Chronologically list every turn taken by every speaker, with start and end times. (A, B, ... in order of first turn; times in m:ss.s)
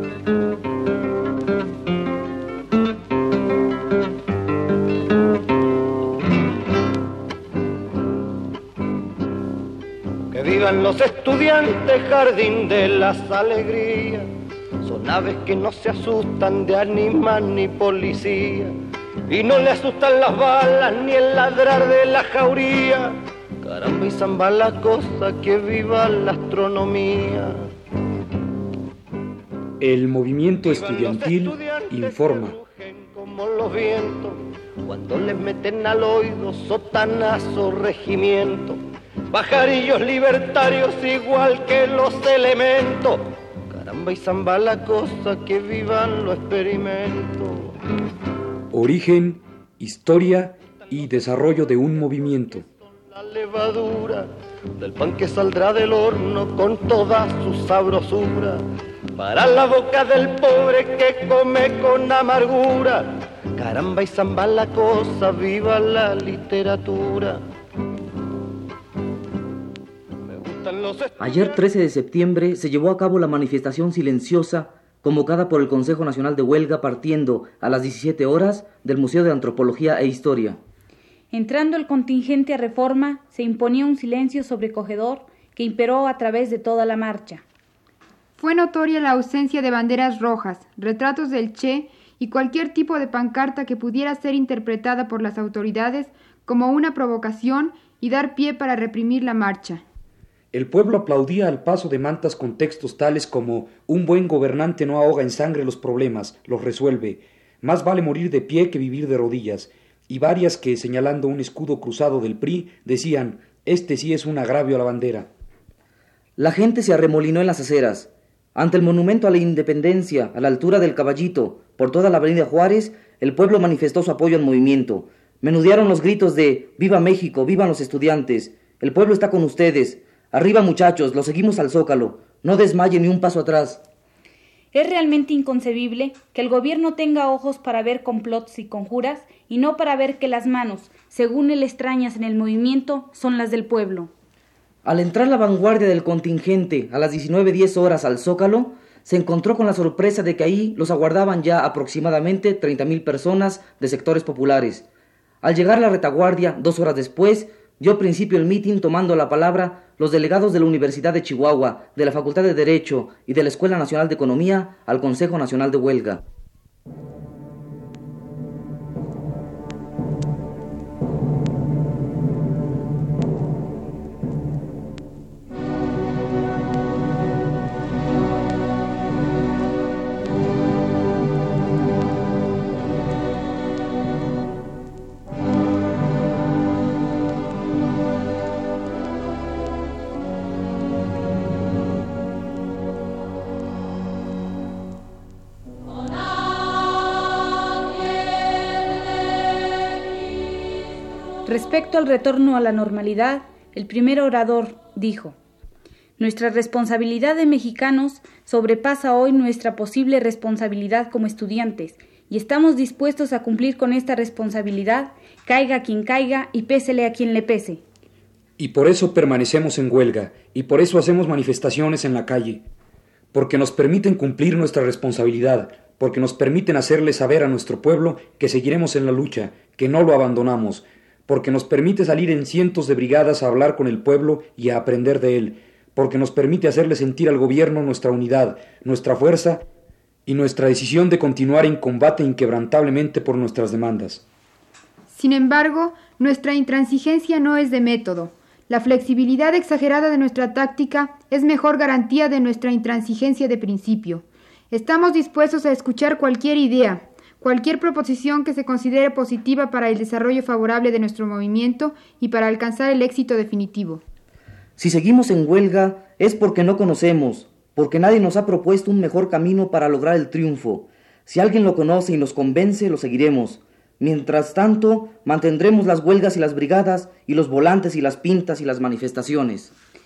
0:10.3-0:14.3 A
0:14.8-0:18.7 A
0:19.3-0:27.6 A
0:29.8-0:32.6 B
0:30.6-0:38.8 A
0:39.3-0:47.7 A
0:48.7-0:52.6 B
0:52.5-0:58.6 A
0:59.1-1:07.4 A
1:10.2-1:11.6 A
1:11.2-1:20.6 C
1:21.3-1:27.4 D
1:28.4-1:39.8 E
1:40.5-1:55.3 B
1:56.4-2:13.8 C
2:14.7-2:24.1 D
2:24.8-2:34.8 C
2:35.4-2:46.2 C
3:21.4-3:25.4 D
3:26.2-3:37.8 D
3:38.6-3:42.6 B
3:43.3-3:59.6 B
4:00.2-4:04.2 B
4:05.1-4:24.0 E
4:24.8-4:39.7 C